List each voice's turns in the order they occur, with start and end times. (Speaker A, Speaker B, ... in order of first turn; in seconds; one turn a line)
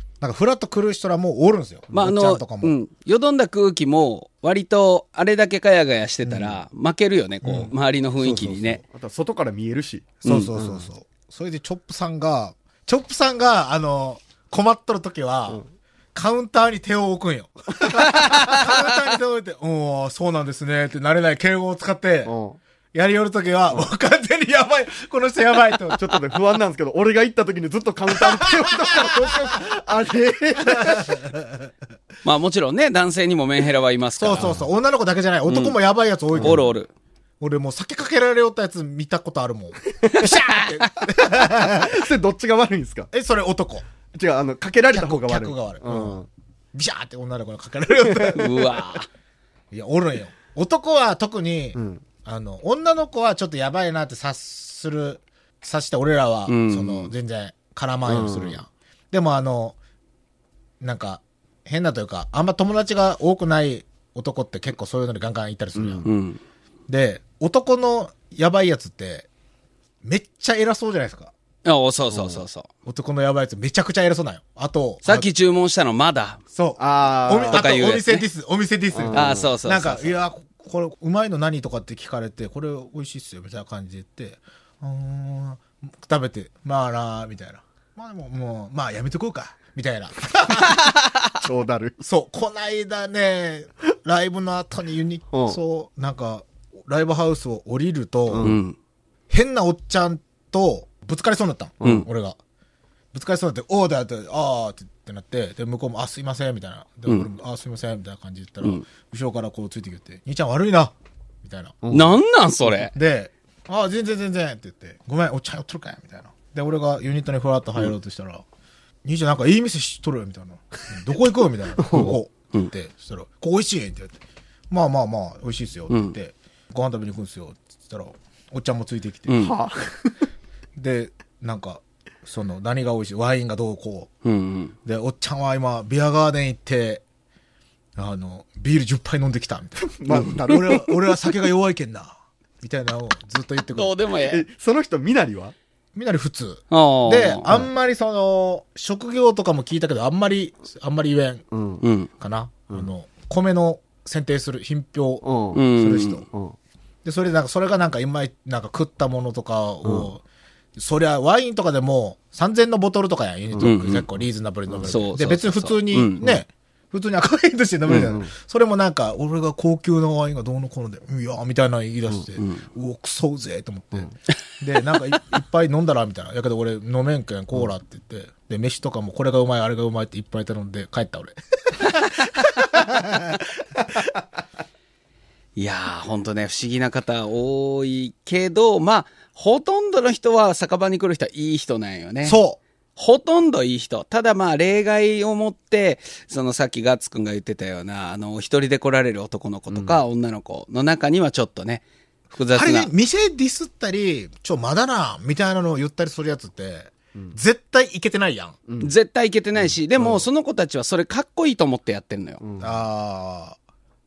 Speaker A: 0.2-2.7
Speaker B: 1.9-8.8
Speaker A: 6.2-6.6
Speaker A: 7.4-8.8
Speaker C: 8.9-10.8
Speaker A: 10.2-15.6
Speaker B: 10.2-10.5
Speaker A: 16.1-22.3
Speaker B: 17.9-18.7
Speaker C: 22.2-22.6
Speaker A: 22.9-26.2
Speaker C: 25.9-31.2
Speaker A: 28.1-29.6
Speaker A: 30.6-31.6
Speaker B: 32.2-34.5
Speaker A: 34.2-36.7
Speaker C: 34.4-34.6
Speaker B: 35.5-35.8
Speaker C: 36.3-36.6
Speaker B: 36.4-36.9
Speaker A: 37.4-42.1
Speaker C: 40.0-40.7
Speaker C: 41.2-43.1
Speaker A: 43.1-43.8
Speaker C: 44.1-46.3
Speaker A: 44.9-46.2
Speaker A: 46.7-48.7
Speaker C: 48.0-48.4
Speaker B: 48.3-49.1
Speaker A: 49.7-59.8
Speaker C: 51.7-52.0
Speaker B: 56.5-57.1
Speaker C: 58.1-58.6
Speaker A: 60.8-66.1
Speaker C: 65.8-66.1
Speaker B: 66.0-66.4
Speaker A: 66.9-69.3
Speaker A: 70.0-71.3
Speaker B: 71.6-72.7
Speaker C: 72.1-72.4
Speaker A: 72.8-75.3
Speaker B: 75.0-76.4
Speaker A: 76.5-90.9
Speaker C: 76.8-77.7
Speaker B: 77.5-78.2
Speaker C: 78.9-79.5
Speaker B: 79.1-80.2
Speaker C: 91.4-92.0
Speaker A: 92.0-98.5
Speaker C: 95.3-95.6
Speaker C: 98.3-98.6
Speaker B: 98.4-98.8
Speaker A: 99.3-102.4
Speaker C: 101.8-102.1
Speaker A: 103.1-111.8
Speaker C: 111.8-112.2
Speaker B: 111.9-112.9
Speaker A: 112.7-118.4
Speaker A: 119.0-124.2
Speaker C: 121.8-122.1
Speaker A: 124.7-129.5
Speaker B: 125.9-126.1
Speaker B: 129.3-129.5
Speaker C: 129.3-130.2
Speaker A: 130.8-134.1
Speaker B: 134.2-134.7
Speaker A: 134.8-137.0
Speaker A: 138.0-143.9
Speaker C: 139.8-141.2
Speaker B: 143.7-144.4
Speaker C: 144.2-145.5
Speaker A: 145.9-151.4
Speaker B: 146.7-147.5
Speaker C: 151.5-151.8
Speaker B: 151.8-152.1
Speaker A: 152.2-156.3
Speaker C: 155.2-155.6
Speaker B: 155.5-156.2
Speaker C: 156.3-156.6
Speaker A: 157.0-160.2
Speaker C: 159.8-160.1
Speaker A: 160.8-184.0
Speaker B: 163.6-164.1
Speaker B: 164.8-166.4
Speaker B: 167.9-168.1
Speaker C: 167.9-168.3
Speaker B: 172.4-172.6
Speaker B: 185.6-192.4
Speaker A: 192.2-192.6
Speaker B: 192.9-202.9
Speaker C: 199.7-200.0
Speaker A: 202.5-208.6
Speaker C: 208.7-208.9
Speaker B: 208.8-212.4
Speaker C: 210.0-210.2
Speaker C: 212.4-212.8
Speaker A: 212.6-213.6